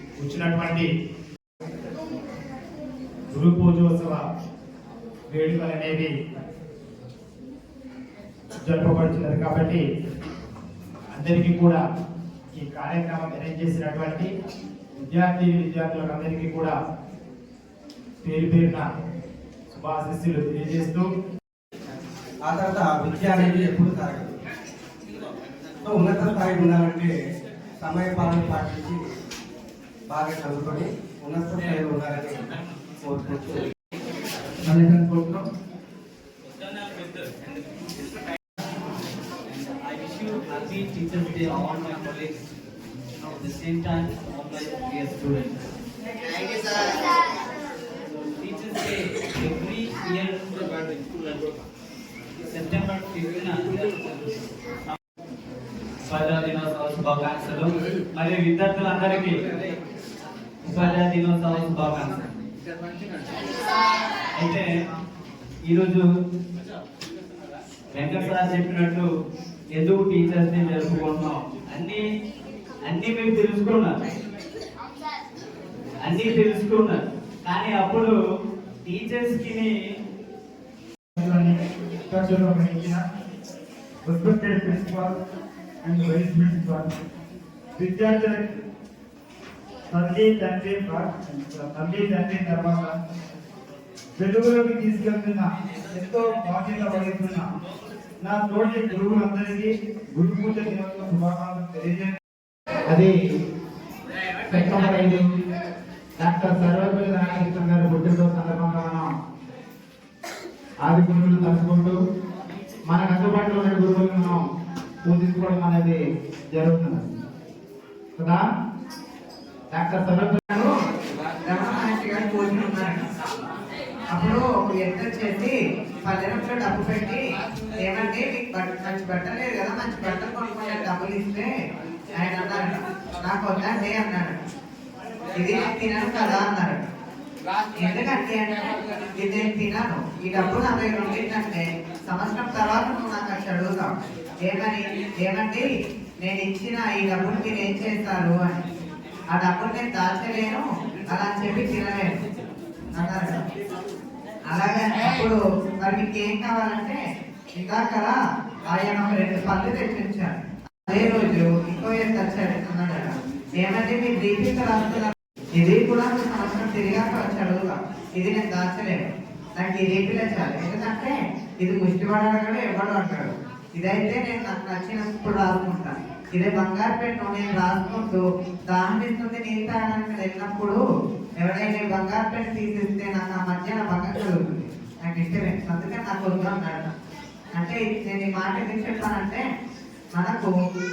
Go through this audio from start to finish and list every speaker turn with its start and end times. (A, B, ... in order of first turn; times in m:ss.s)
0:00.2-0:00.9 A
0:03.3-0:04.2 A
0:05.3-0:06.1 A
0:08.6-0:09.8 A
0:11.1-0:11.8 A
0:12.5-0:14.3 A
0:15.1-0:16.7 A
0:18.2-0:18.9 A
0:19.8-0:21.1 A
0:22.5-0:24.4 B
0:25.8-0:27.2 B
0:27.8-0:29.0 B
0:30.1-0:32.5 B
0:33.0-0:33.7 B
0:34.6-0:35.4 A
0:39.5-0:42.4 C
0:43.2-0:45.5 C
0:48.2-0:50.4 C
0:52.5-0:54.3 C
0:56.1-0:59.7 C
1:00.6-1:02.3 C
1:04.4-1:04.7 C
1:05.7-1:06.0 C
1:07.9-1:09.1 C
1:09.8-1:12.0 C
1:12.9-1:13.9 C
1:16.0-1:18.2 C
1:18.8-1:19.8 C
1:21.2-1:21.6 A
1:22.1-1:23.0 A
1:24.1-1:25.1 A
1:25.9-1:26.8 A
1:27.8-1:28.4 A
1:29.9-1:32.9 A
1:34.2-1:35.4 A
1:35.9-1:37.0 B
1:36.0-1:37.4 A
1:38.3-1:41.9 A
1:40.2-1:42.1 B
1:44.5-1:45.2 A
1:46.2-1:49.1 A
1:50.8-1:52.0 A
1:52.9-1:54.4 A
1:55.1-1:56.0 A
1:56.5-1:57.1 A
1:58.2-1:58.4 A
1:59.7-2:00.7 A
2:01.4-2:03.1 D
2:04.2-2:07.2 D
2:07.8-2:11.5 D
2:12.2-2:14.4 D
2:15.4-2:16.9 D
2:17.8-2:23.9 D
2:24.4-2:25.7 D
2:26.2-2:28.6 D
2:29.3-2:32.2 D
2:32.9-2:33.5 D
2:34.5-2:37.0 D
2:37.5-2:38.2 D
2:38.7-3:00.8 D
3:01.4-3:06.9 D
3:07.6-3:09.4 D
3:10.2-3:10.5 D